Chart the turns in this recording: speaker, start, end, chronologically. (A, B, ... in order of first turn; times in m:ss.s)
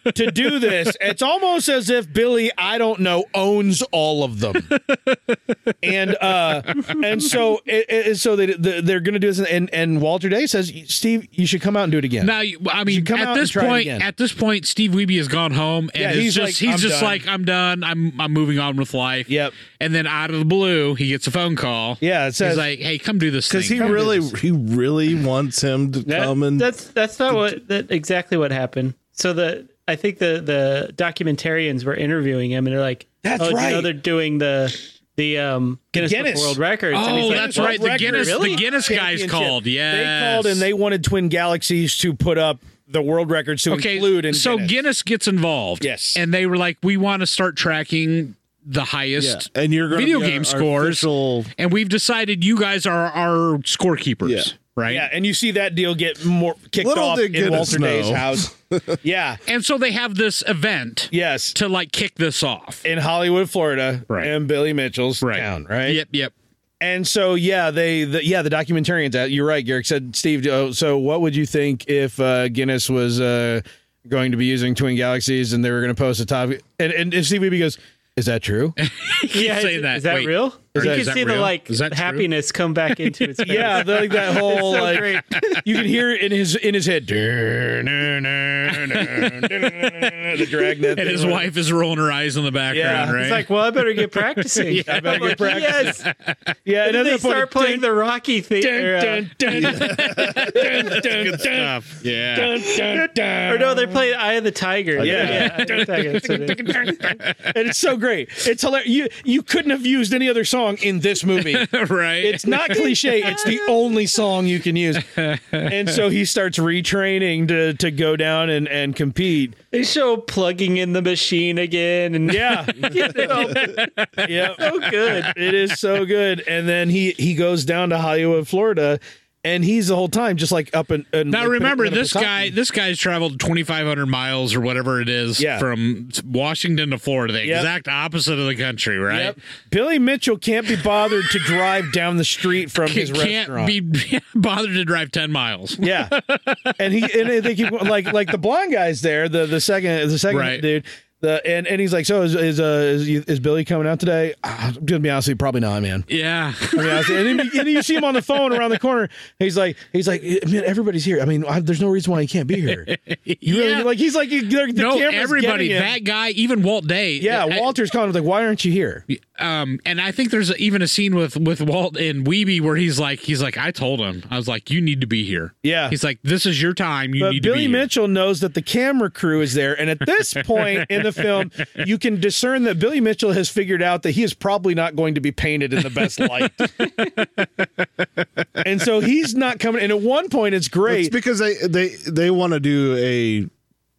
0:00.1-0:04.7 A
0:05.8-0:12.3 A
0:12.2-0:24.2 B
0:12.9-0:14.1 A
0:16.0-0:17.2 A
0:19.3-0:19.6 A
0:22.0-0:22.6 A
0:23.5-0:26.7 C
0:23.8-0:24.2 A
0:26.0-0:38.6 D
0:33.2-0:33.9 A
0:35.9-0:44.8 A
0:36.9-0:40.7 B
0:43.7-0:55.1 B
0:45.8-0:46.2 A
0:49.2-0:51.5 C
0:54.2-0:54.5 C
0:54.9-0:58.5 A
0:56.8-0:59.0 C
0:59.0-0:59.4 A
0:59.5-1:02.8 B
1:01.1-1:01.6 A
1:02.8-1:06.0 A
1:05.2-1:06.3 B
1:06.8-1:18.8 A
1:18.8-1:22.3 B
1:19.3-1:25.6 D
1:20.7-1:21.2 A
1:23.4-1:25.6 B
1:23.4-1:31.5 A
1:28.7-1:36.4 B
1:32.7-1:33.2 A
1:33.0-1:36.1 D
1:34.8-1:36.0 A
1:36.6-1:37.9 A
1:36.8-1:39.3 D
1:38.6-1:41.7 A
1:39.5-1:43.0 B
1:39.6-1:40.5 C
1:42.3-1:44.1 A
1:43.4-1:46.8 D
1:45.0-1:45.5 C
1:45.0-1:51.7 A
1:45.3-1:47.5 B
1:51.3-1:53.6 B
1:52.2-1:59.6 A
1:55.0-1:56.0 B
1:59.7-2:03.9 D
2:02.3-2:03.6 A
2:03.0-2:05.2 B
2:04.2-2:12.5 A
2:04.6-2:05.4 D
2:11.3-2:19.4 B
2:15.4-2:15.7 A
2:17.4-2:17.7 A
2:19.1-2:23.7 A
2:22.8-2:28.1 B
2:25.8-2:26.1 A
2:26.8-2:36.1 A
2:30.3-2:30.6 B
2:36.1-2:37.9 B
2:36.7-2:42.9 A
2:42.6-2:43.9 B
2:43.4-2:46.0 A
2:44.7-2:47.7 B
2:47.2-2:49.0 A
2:49.1-2:57.9 B
2:55.6-2:56.0 A
2:57.2-3:07.1 A
3:00.5-3:01.5 B
3:06.0-3:07.7 B
3:08.6-3:11.1 A
3:10.9-3:13.5 C